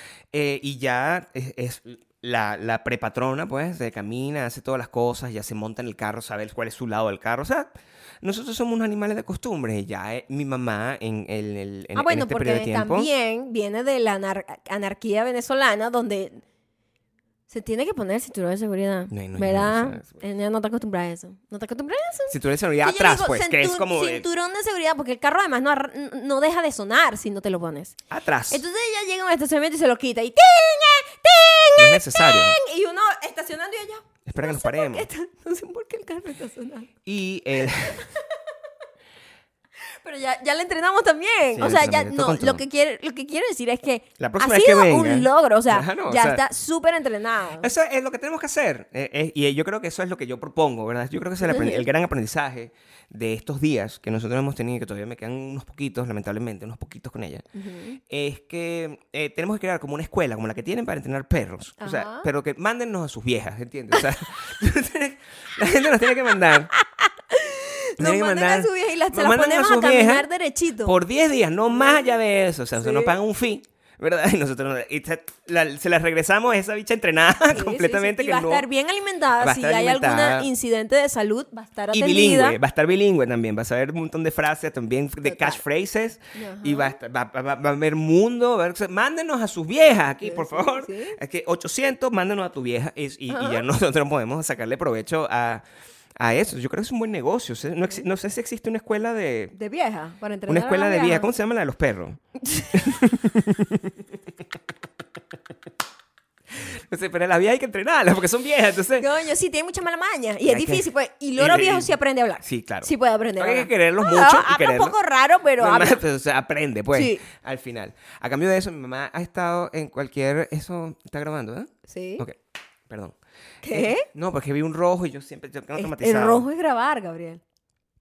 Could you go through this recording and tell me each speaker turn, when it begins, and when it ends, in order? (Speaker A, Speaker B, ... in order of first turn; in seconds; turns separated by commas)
Speaker A: 0.3-7.7, Speaker A: 8.2-13.1, Speaker B: 11.9-16.4, Speaker B: 17.5-28.0, Speaker A: 19.1-20.0, Speaker A: 22.3-24.2, Speaker A: 28.1-28.6, Speaker B: 28.5-36.9, Speaker A: 31.8-32.6, Speaker A: 34.2-35.1, Speaker A: 37.0-38.0, Speaker B: 37.6-38.2, Speaker B: 39.9-47.7, Speaker A: 41.5-42.6, Speaker A: 44.2-46.4, Speaker A: 47.6-57.5, Speaker B: 51.4-51.9, Speaker B: 57.5-58.0, Speaker A: 58.1-66.7, Speaker B: 61.8-62.3, Speaker B: 66.8-71.0, Speaker A: 68.0-70.3, Speaker A: 70.8-78.7, Speaker B: 72.8-73.1, Speaker B: 77.5-82.6, Speaker A: 79.4-80.5, Speaker A: 81.9-95.6, Speaker B: 85.2-85.6, Speaker B: 86.3-87.0, Speaker B: 90.2-91.2, Speaker B: 93.3-93.6, Speaker A: 96.2-99.5, Speaker B: 99.5-101.3, Speaker A: 100.5-102.2, Speaker B: 102.4-102.9, Speaker A: 102.7-104.0, Speaker A: 106.5-109.1, Speaker B: 109.0-116.0, Speaker A: 110.5-111.9, Speaker A: 112.4-114.9, Speaker A: 115.6-122.4, Speaker B: 116.9-117.2, Speaker B: 121.9-122.2, Speaker A: 122.9-123.2, Speaker B: 123.6-124.1, Speaker A: 123.7-126.5, Speaker B: 125.8-127.4